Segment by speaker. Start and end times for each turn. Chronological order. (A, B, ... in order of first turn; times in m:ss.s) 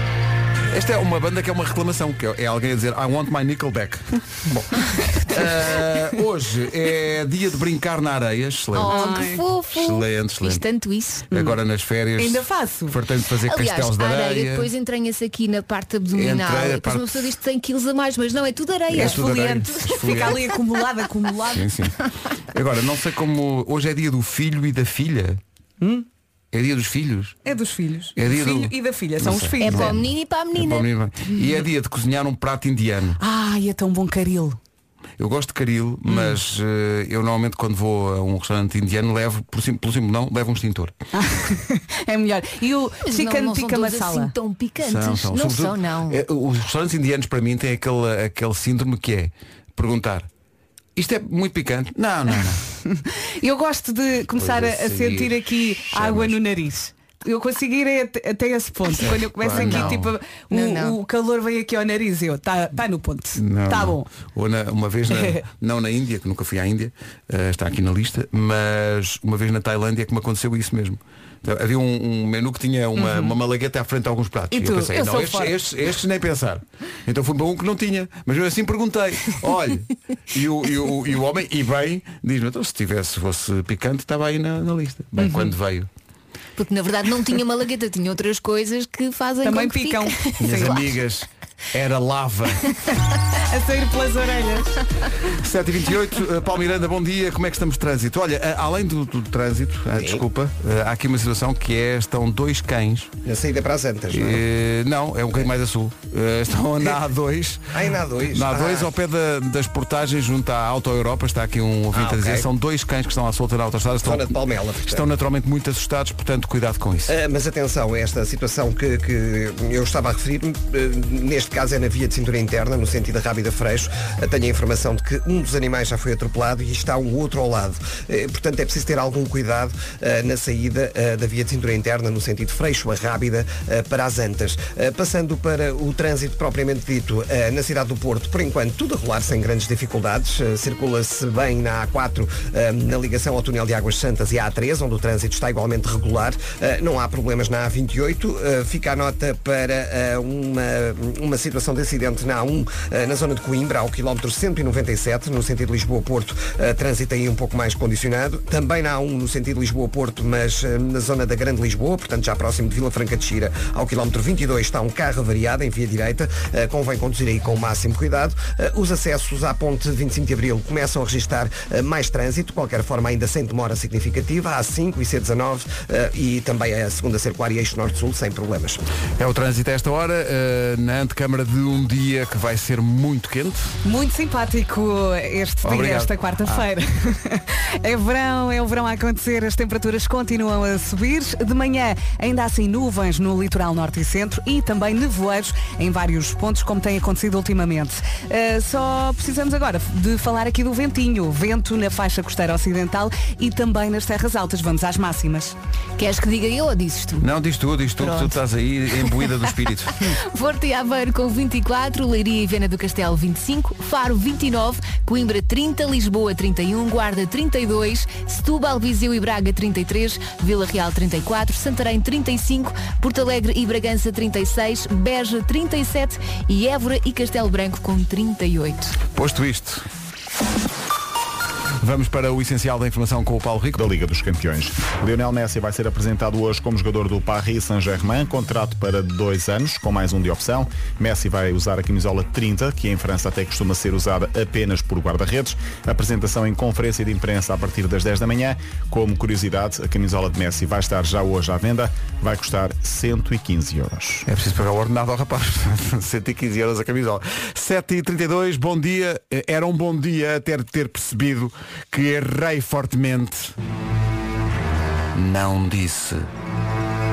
0:00.7-0:09.0 A
0:08.7-0:11.3 B
0:08.8-0:09.4 C
0:09.7-0:10.6 A
0:11.3-0:11.6 C
0:11.3-0:14.7 A
0:12.2-0:13.0 C
0:13.4-0:20.4 B
0:16.1-0:17.2 A
0:18.9-0:20.5 A
0:18.9-0:21.7 C
0:21.5-0:22.0 A
0:22.5-0:25.4 A
0:25.8-0:26.0 C
0:26.5-0:27.4 A
0:27.4-0:30.0 C
0:28.2-0:33.2 A
0:29.6-0:30.9 B
0:33.2-0:34.6 C
0:35.2-0:40.9 A
0:36.1-0:36.4 C
0:41.1-0:44.3 C
0:43.0-0:46.2 B
0:44.8-0:50.3 A
0:51.0-0:52.6 A
0:52.8-1:04.1 C
0:54.4-0:56.4 A
0:59.0-1:00.2 A
0:59.5-1:00.0 B
1:00.5-1:01.0 B
1:03.4-1:25.9 A
1:05.1-1:05.4 C
1:13.0-1:13.4 C
1:14.5-1:15.6 C
1:25.2-1:25.5 C
1:26.6-1:31.0 B
1:29.4-1:30.7 C
1:30.4-1:32.7 A
1:33.4-1:34.8 C
1:35.4-1:43.1 A
1:40.0-1:40.2 D
1:43.2-1:44.4 D
1:44.1-1:47.7 A
1:47.7-1:48.9 D
1:48.3-1:54.3 A
1:51.9-1:52.4 D
1:54.0-1:55.0 D
1:54.9-1:57.1 A
1:57.1-2:58.8 D
2:59.2-3:03.7 A
3:03.8-3:25.5 C
3:05.6-3:06.6 A
3:26.0-3:27.3 B
3:27.2-3:30.0 A
3:28.0-3:28.4 B
3:30.0-3:49.0 B
3:49.1-3:49.8 A
3:51.8-3:53.8 A
3:53.8-4:14.2 E
4:14.2-4:23.6 A
4:25.1-4:26.3 A